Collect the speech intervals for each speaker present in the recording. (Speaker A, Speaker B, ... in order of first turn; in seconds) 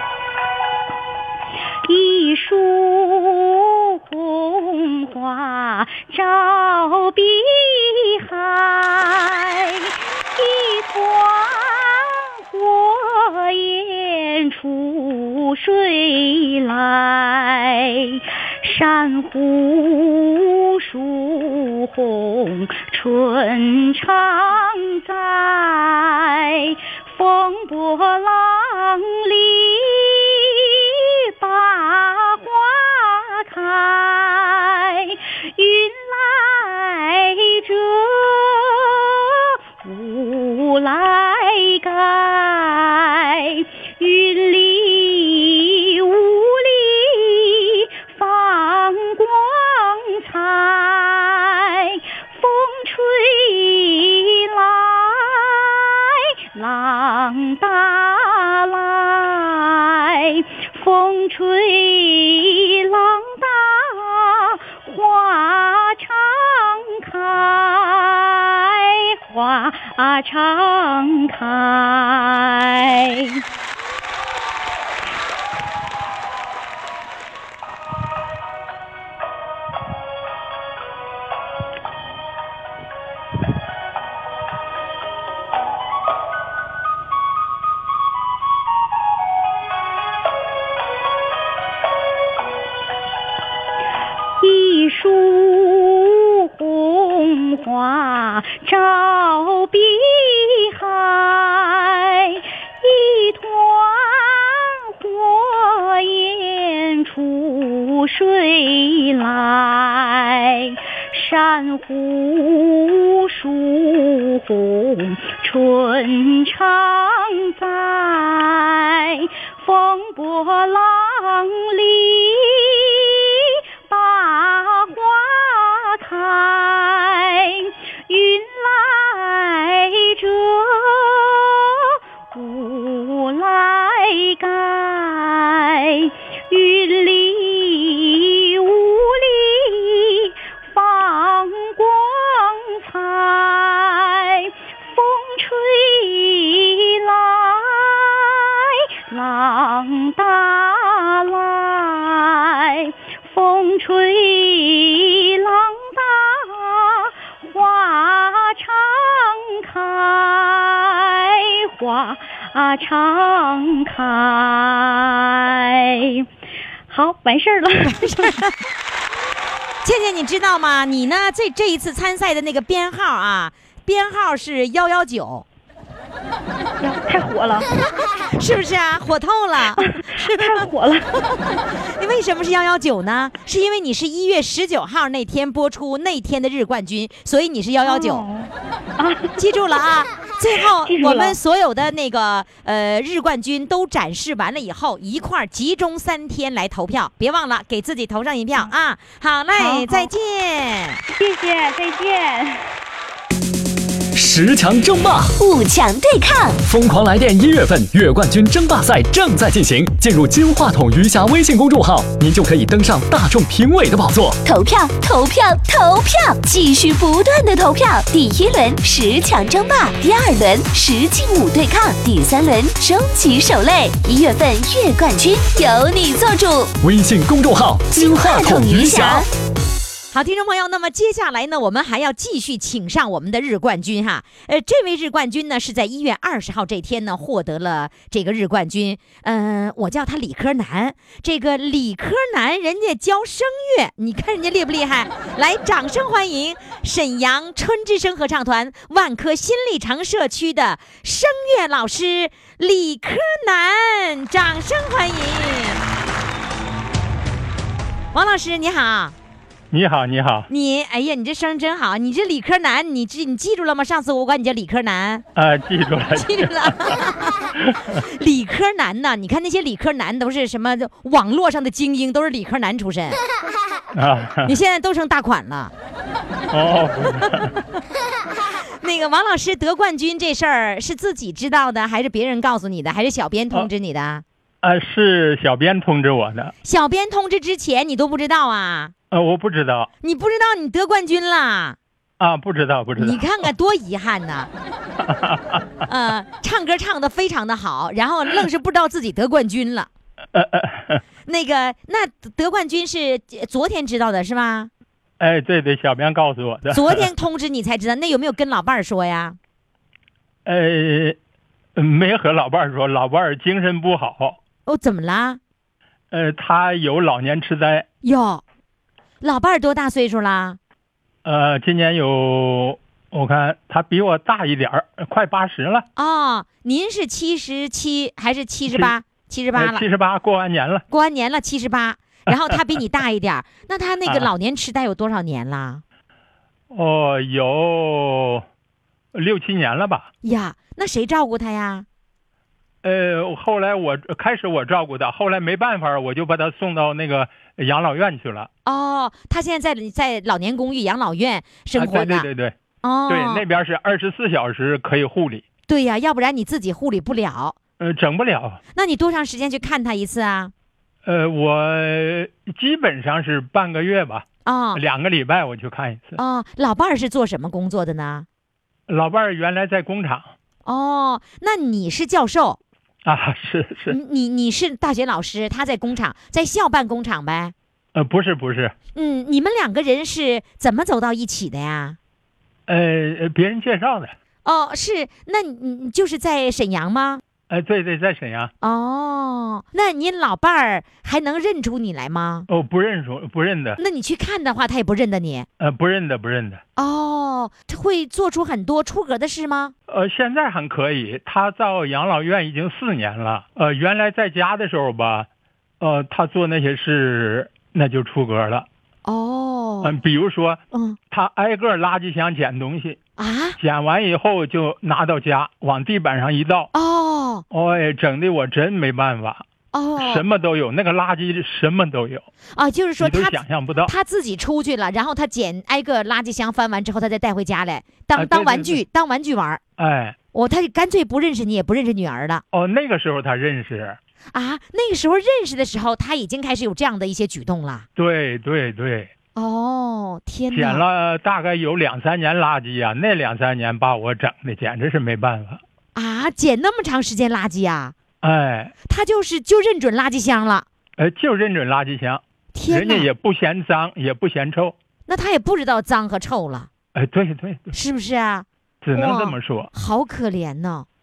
Speaker A: 1.8-73.4, 94.4-166.2, 166.9-168.4, 176.8-177.7, 179.8-181.1, 187.8-189.4, 190.6-191.4, 199.5-200.1, 201.1-202.7
Speaker B: 167.8-168.6, 169.8-175.4, 178.3-180.7, 181.4-188.2, 189.4-201.0, 230.1-255.8, 258.1-259.1, 260.5-265.2, 266.1-273.2, 274.4-275.7, 278.8-284.2, 286.6-288.9, 290.0-291.8, 293.0-294.5, 295.9-299.9, 301.2-304.7, 306.7-309.4, 314.6-315.4, 318.0-318.4, 319.2-320.6, 325.9-329.8, 330.9-335.8, 340.2-341.9, 348.6-352.3, 352.8-353.4, 355.7-357.6, 358.7-360.5, 364.4-364.8, 366.2-368.2, 370.6-372.6, 373.9-377.5, 378.9-382.0, 384.4-387.2, 388.6-392.5, 393.8-395.5, 396.8-399.7, 409.1-409.9, 410.7-411.0, 413.2-413.6, 416.7-417.4, 419.7-420.2, 422.5-429.6, 430.3-432.4, 434.3-437.9, 439.3-440.8, 445.9-447.9, 448.9-450.7, 452.5-453.1, 455.1-456.7, 457.7-460.9
Speaker C: 204.1-205.3, 206.6-214.4, 226.8-229.2
Speaker D: 205.4-206.6, 214.4-226.7, 227.9-229.3
Speaker E: 259.7-260.5, 265.4-267.0, 273.9-274.6, 276.5-277.5, 284.6-286.5, 289.1-289.9, 292.2-293.2, 295.0-295.6, 300.3-301.0, 305.2-307.1, 310.4-311.2, 311.8-314.4, 316.1-317.9, 321.2-325.9, 329.6-330.8, 334.0-334.3, 336.7-338.4, 339.1-340.1, 342.8-348.5, 351.7-352.5, 353.1-355.4, 357.8-358.6, 361.0-366.2, 368.9-370.3, 373.0-374.0, 377.9-378.7, 382.7-384.1, 387.5-388.5, 392.5-393.8, 395.6-396.6, 399.9-405.3, 405.8-408.7, 409.8-410.6, 411.1-413.0, 413.6-416.7, 417.5-419.4, 420.0-422.2, 423.0-423.9, 428.1-428.8, 429.8-430.1, 432.5-434.0, 438.0-439.1, 440.5-445.6, 448.2-448.7, 451.0-454.7, 456.9-457.7, 458.8-459.7